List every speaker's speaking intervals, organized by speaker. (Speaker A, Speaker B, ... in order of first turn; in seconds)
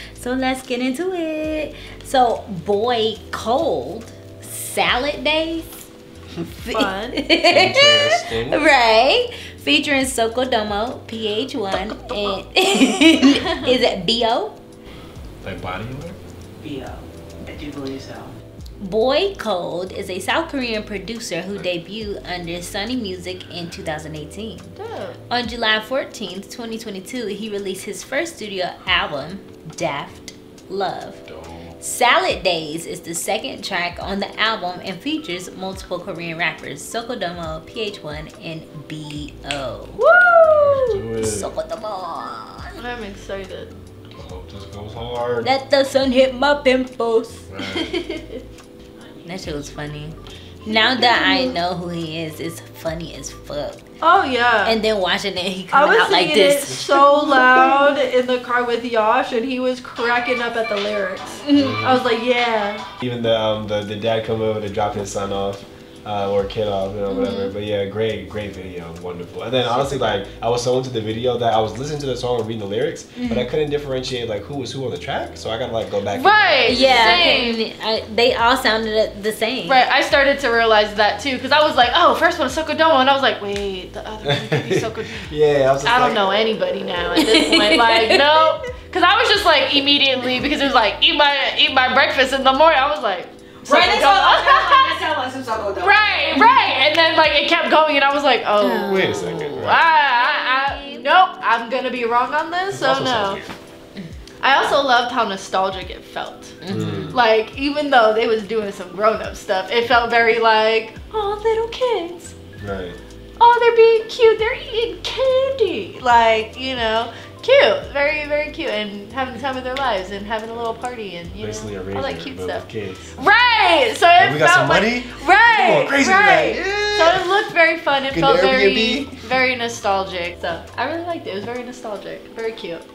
Speaker A: 0.1-5.8, 6.5-14.6, 18.8-24.8, 25.3-31.2, 31.8-40.0, 41.1-42.8, 45.4-47.5, 49.2-53.8, 54.6-57.8, 73.2-73.5, 76.6-79.8, 87.1-88.4, 98.6-101.1, 106.6-107.2
Speaker B: 6.7-7.2, 24.8-25.2, 40.0-41.0, 42.8-43.8, 47.6-48.4, 50.6-51.5, 54.0-54.8, 55.7-62.8, 67.1-67.5, 69.7-70.1, 76.1-77.6, 79.6-85.3, 85.8-95.0, 95.8-103.4, 104.4-106.6, 107.1-112.3, 113.4-132.8
Speaker C: 7.5-8.6, 15.4-16.2, 31.3-31.7, 40.6-41.5, 44.1-45.5, 47.5-48.0, 61.5-62.0, 63.0-77.4, 84.2-87.1, 98.8-99.8, 102.7-103.5, 106.7-107.2, 112.6-113.0, 121.4-123.1, 124.2-127.2, 128.1-129.2
Speaker D: 16.6-18.3, 93.6-96.0